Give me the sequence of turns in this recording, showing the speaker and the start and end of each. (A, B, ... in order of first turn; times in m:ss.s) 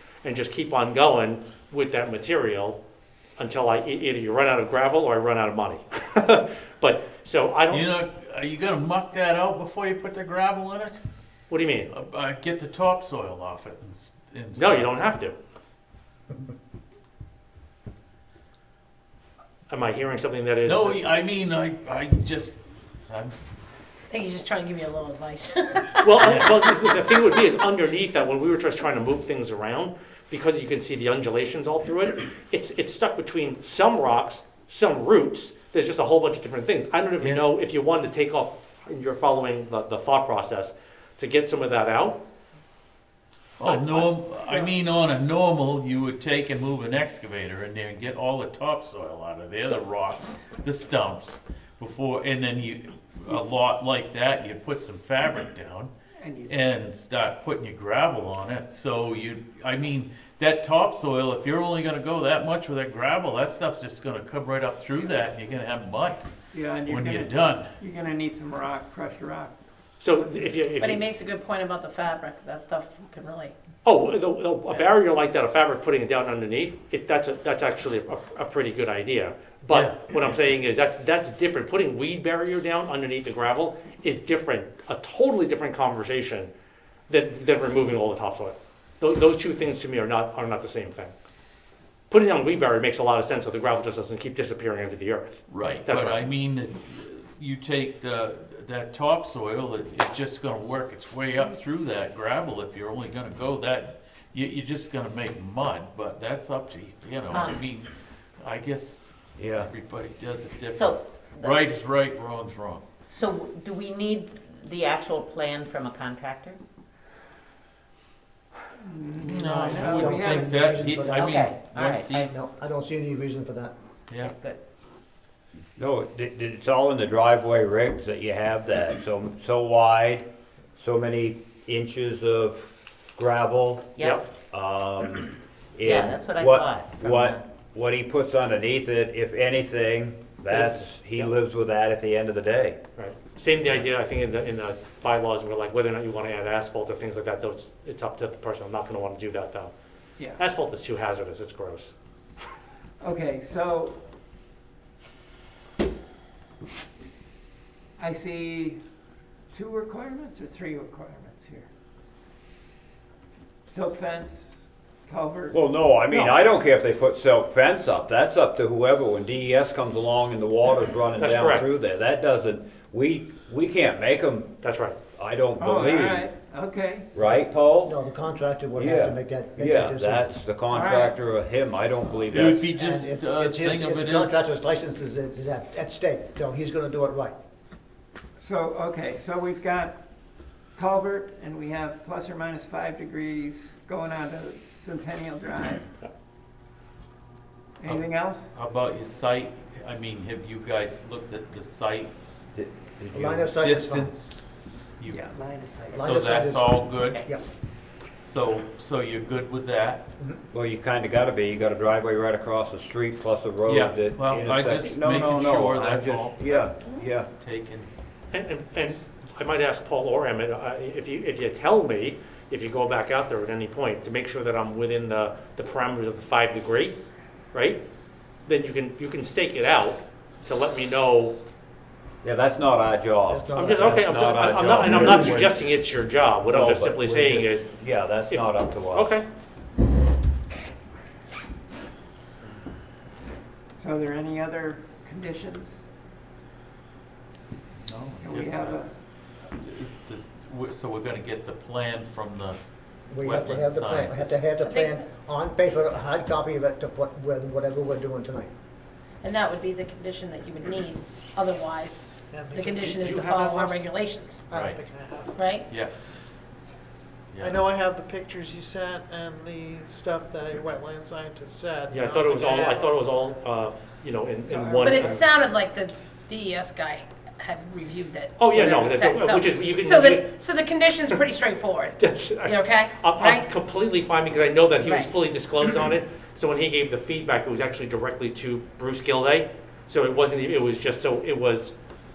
0:00.2-0:02.8 A
0:03.4-0:07.9 A
0:07.7-0:11.0 B
0:11.5-0:11.9 A
0:11.9-0:15.0 B
0:14.6-0:15.4 A
0:19.7-0:21.1 A
0:20.6-0:23.4 B
0:24.1-0:26.3 C
0:26.0-0:42.2 A
0:26.2-0:26.6 B
0:43.6-0:55.9 B
0:43.6-0:44.7 A
0:56.2-0:56.7 D
0:56.4-1:06.3 B
1:06.5-1:09.6 D
1:06.8-1:07.7 B
1:10.0-1:11.0 A
1:10.8-1:13.5 C
1:13.8-1:26.5 A
1:19.7-1:20.0 B
1:27.1-1:31.1 A
1:32.1-1:36.2 A
1:35.5-1:52.8 B
1:47.3-1:47.6 E
1:49.4-1:49.7 F
1:50.8-1:51.7 E
1:53.1-1:56.6 E
1:58.8-2:00.5 D
1:59.2-2:02.3 B
1:59.5-2:01.6 G
2:01.2-2:02.3 E
2:02.2-2:03.8 G
2:04.1-2:04.4 B
2:04.2-2:04.6 E
2:05.8-2:10.3 F
2:10.8-2:13.9 F
2:14.0-2:14.2 E
2:14.5-2:22.8 F
2:15.8-2:17.4 E
2:20.5-2:21.3 A
2:23.0-2:29.7 A
2:30.4-2:31.9 A
2:33.0-2:34.0 D
2:38.0-2:38.8 D
2:39.5-2:41.7 D
2:43.7-2:45.6 D
2:45.5-2:54.5 F
2:46.1-2:46.4 A
2:51.2-2:51.7 A
2:54.6-2:55.0 A
2:55.2-2:56.3 F
2:55.6-2:57.1 D
2:57.2-2:58.0 F
2:57.8-3:00.3 G
2:58.8-3:02.6 F
3:00.7-3:01.2 D
3:02.3-3:04.5 B
3:02.4-3:07.4 G
3:08.4-3:10.0 D
3:10.8-3:15.9 D
3:17.8-3:18.5 D
3:17.8-3:22.1 B
3:22.5-3:23.5 F
3:23.1-3:24.1 G
3:23.2-3:24.4 B
3:25.0-3:25.2 B
3:25.1-3:26.0 D
3:25.9-3:27.4 G
3:26.0-3:27.3 B
3:28.2-3:30.1 B
3:30.5-3:37.3 F
3:33.7-3:37.9 B
3:38.3-3:47.0 A
3:47.5-3:47.8 A
3:48.5-3:51.4 A
3:52.2-3:55.6 F
3:53.3-3:54.0 G
3:53.6-3:57.7 A
3:54.7-3:55.4 G
3:56.5-3:59.1 F
3:58.3-3:59.3 A
4:03.8-4:05.8 D
4:07.8-4:12.6 B
4:08.2-4:08.9 D
4:13.1-4:18.5 G
4:13.2-4:14.5 B
4:14.6-4:15.1 C
4:19.2-4:24.4 C
4:22.3-4:23.8 H
4:24.5-4:25.4 H
4:24.5-4:24.8 B
4:25.4-4:25.7 C
4:27.3-4:27.6 B
4:27.4-4:32.9 H
4:31.9-4:35.2 A
4:34.4-4:35.1 H
4:34.7-4:43.5 C
4:38.4-4:40.2 A
4:42.0-4:51.8 A
4:44.8-4:45.1 C